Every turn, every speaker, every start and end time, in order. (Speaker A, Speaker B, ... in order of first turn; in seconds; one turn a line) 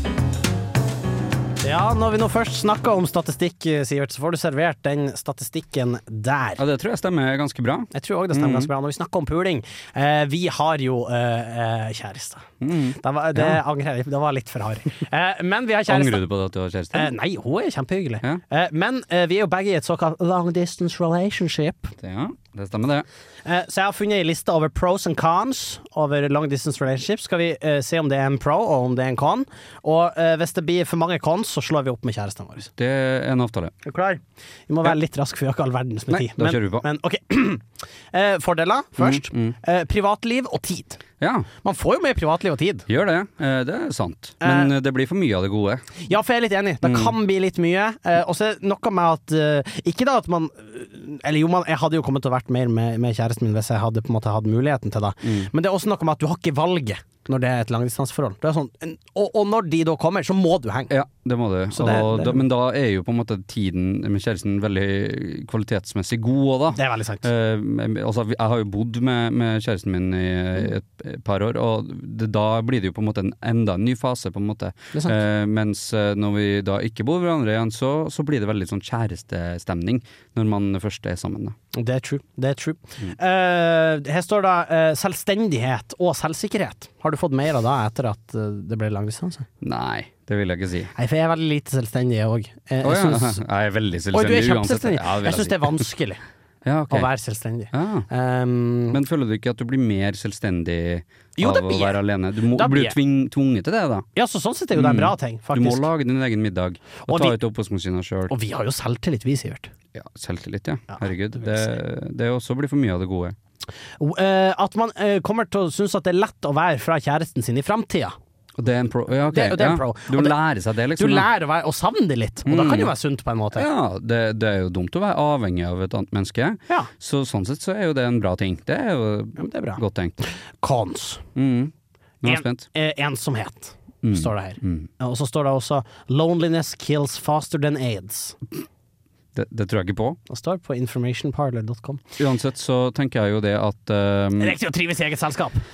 Speaker A: 1.6-6.6
Speaker B: 6.6-8.7
Speaker A: 7.9-12.4
Speaker B: 12.6-13.6
Speaker A: 13.0-16.2
Speaker B: 15.9-17.1
Speaker A: 16.9-21.9
Speaker B: 22.0-23.1
Speaker A: 23.4-32.7
Speaker B: 32.8-33.7
Speaker A: 33.8-41.0
Speaker B: 36.1-36.9
Speaker B: 39.0-39.6
Speaker B: 41.2-41.5
Speaker A: 41.6-42.9
Speaker B: 42.9-45.9
Speaker A: 44.4-44.7
Speaker A: 46.0-60.9
Speaker B: 46.8-47.1
Speaker B: 55.2-55.5
Speaker B: 60.9-81.5
Speaker A: 61.7-62.4
Speaker A: 66.7-67.2
Speaker A: 81.7-89.5
Speaker B: 89.6-90.9
Speaker A: 91.0-93.4
Speaker B: 92.8-95.8
Speaker A: 94.1-96.2
Speaker B: 96.6-97.1
Speaker A: 96.9-99.0
Speaker B: 97.7-98.1
Speaker B: 98.9-104.1
Speaker A: 101.4-102.9
Speaker A: 104.2-105.8
Speaker B: 104.7-108.3
Speaker A: 107.1-107.3
Speaker A: 108.3-109.7
Speaker B: 109.9-113.3
Speaker A: 110.9-111.7
Speaker A: 114.0-118.1
Speaker B: 118.6-121.3
Speaker A: 119.3-120.4
Speaker A: 121.0-123.7
Speaker B: 122.4-122.9
Speaker B: 123.5-130.2
Speaker A: 129.4-131.2
Speaker B: 131.3-132.7
Speaker A: 132.2-138.4
Speaker B: 134.0-134.9
Speaker B: 139.3-140.2
Speaker A: 140.3-142.0
Speaker B: 142.2-144.6
Speaker A: 144.4-145.6